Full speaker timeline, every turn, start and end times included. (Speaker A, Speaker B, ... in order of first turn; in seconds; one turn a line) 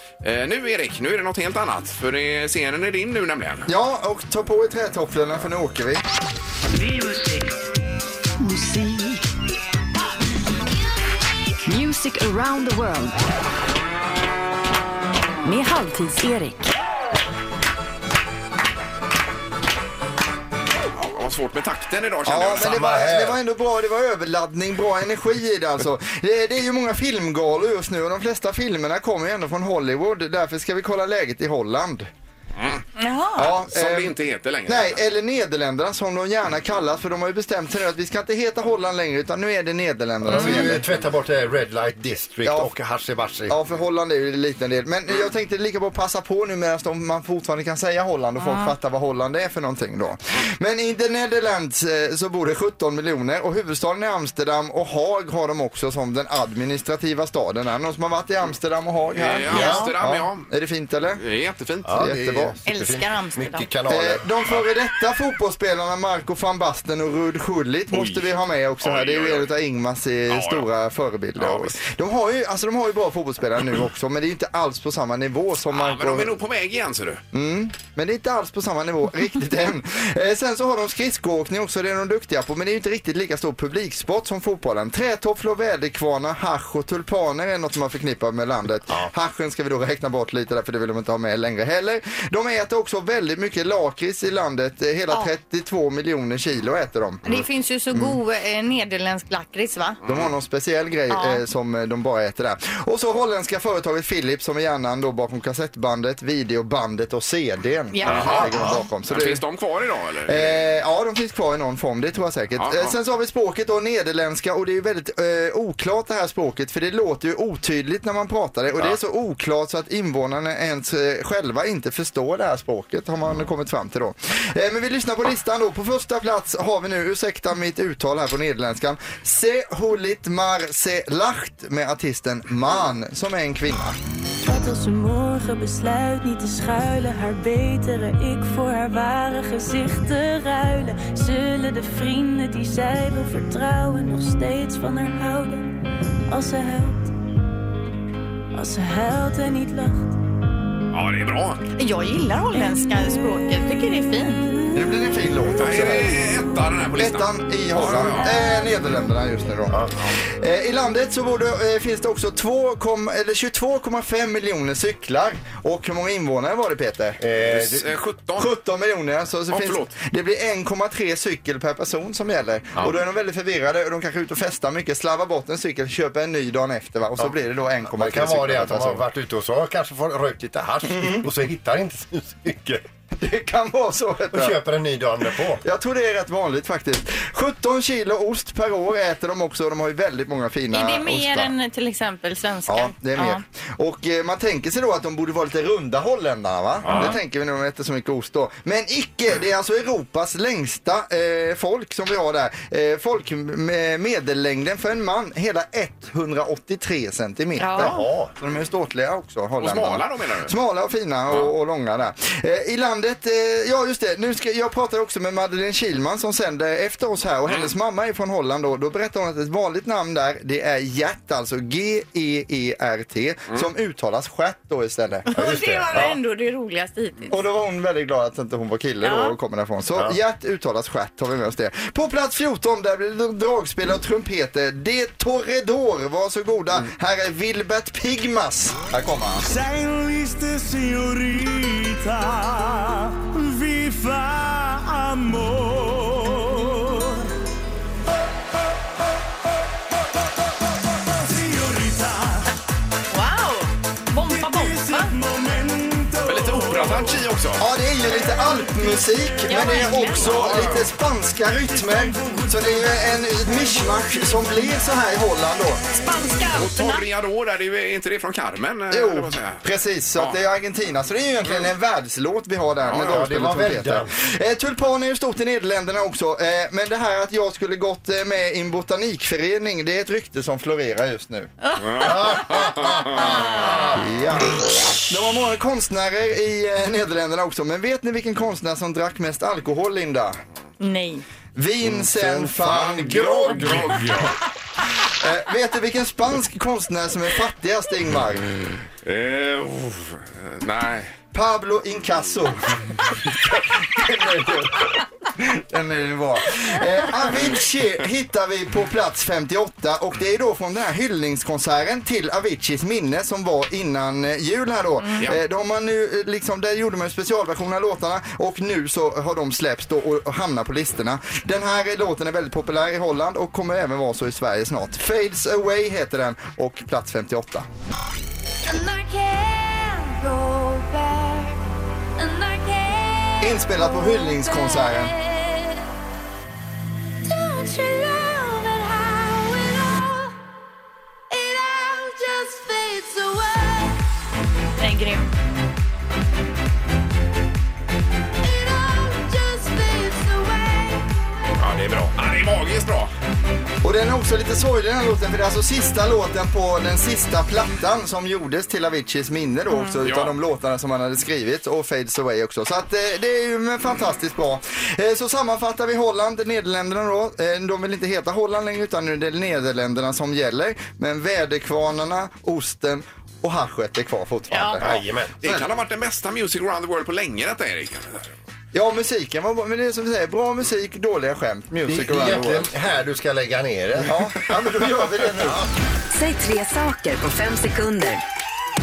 Speaker A: 0.2-3.7
Speaker B: 3.7-6.0
Speaker C: 11.8-12.4
Speaker C: 15.4-16.6
Speaker A: 20.9-22.8
Speaker B: 22.2-32.1
Speaker D: 22.5-23.4
Speaker A: 32.5-32.8
Speaker C: 33.0-33.5
Speaker B: 33.4-34.1
Speaker A: 33.4-35.0
Speaker B: 34.7-40.8
Speaker D: 40.2-43.6
Speaker C: 40.3-40.6
Speaker B: 43.5-61.2
Speaker C: 48.4-48.7
Speaker A: 59.1-60.5
Speaker D: 59.5-59.9
Speaker C: 59.5-59.9
Speaker A: 61.2-62.0
Speaker D: 61.8-64.6
Speaker B: 62.0-62.5
Speaker C: 62.6-63.7
Speaker B: 63.9-76.4
Speaker A: 67.9-68.3
Speaker A: 68.8-69.5
Speaker A: 70.3-70.6
Speaker A: 71.4-71.8
Speaker A: 75.7-77.2
Speaker B: 77.3-97.4
Speaker C: 97.2-100.0
Speaker B: 97.9-98.2
Speaker A: 100.0-100.3
Speaker B: 100.1-109.4
Speaker C: 101.1-101.4
Speaker C: 107.9-108.8
Speaker A: 108.0-110.6
Speaker B: 110.3-134.0
Speaker A: 112.6-112.9
Speaker E: 134.4-145.7
Speaker E: 146.3-147.1
Speaker E: 148.5-150.1
Speaker A: 150.9-151.6
Speaker C: 151.8-154.5
Speaker B: 154.7-156.3
Speaker A: 155.6-158.3
Speaker B: 156.9-167.2
Speaker D: 167.2-167.9
Speaker A: 167.4-168.5
Speaker B: 168.4-179.0
Speaker A: 169.5-169.9
Speaker D: 177.9-182.8
Speaker B: 180.9-181.2
Speaker B: 183.2-184.6
Speaker D: 184.3-185.6
Speaker B: 185.6-191.5
Speaker C: 190.7-193.4
Speaker B: 192.7-225.3
Speaker A: 196.8-197.1
Speaker D: 196.8-197.2
Speaker C: 207.6-208.0
Speaker D: 207.7-208.3
Speaker A: 209.6-210.5
Speaker A: 217.5-217.7
Speaker C: 225.2-227.3
Speaker D: 225.3-226.2
Speaker B: 227.3-239.5
Speaker C: 229.0-229.3
Speaker C: 253.1-255.2
Speaker A: 256.2-257.6
Speaker B: 257.6-265.8
Speaker C: 259.4-260.5
Speaker A: 260.1-260.9
Speaker C: 265.9-267.0
Speaker A: 266.5-269.6
Speaker B: 268.9-281.5
Speaker A: 270.1-270.4
Speaker A: 272.9-273.1
Speaker D: 272.9-274.1
Speaker C: 281.6-282.6
Speaker A: 281.8-283.3
Speaker D: 281.9-284.0
Speaker C: 283.1-283.9
Speaker B: 283.9-290.4
Speaker C: 290.8-291.2
Speaker B: 291.5-293.8
Speaker D: 291.8-294.2
Speaker A: 293.0-294.4
Speaker B: 295.1-298.5
Speaker A: 299.0-301.1
Speaker B: 301.3-327.6
Speaker B: 333.4-335.1
Speaker C: 344.8-345.3
Speaker A: 351.6-353.1
Speaker B: 353.8-375.0
Speaker A: 360.0-360.4
Speaker C: 374.5-374.8
Speaker D: 374.8-375.6
Speaker A: 375.4-378.3
Speaker B: 378.7-382.7
Speaker D: 381.9-384.2
Speaker B: 384.0-385.7
Speaker D: 384.9-385.7
Speaker F: 386.1-388.2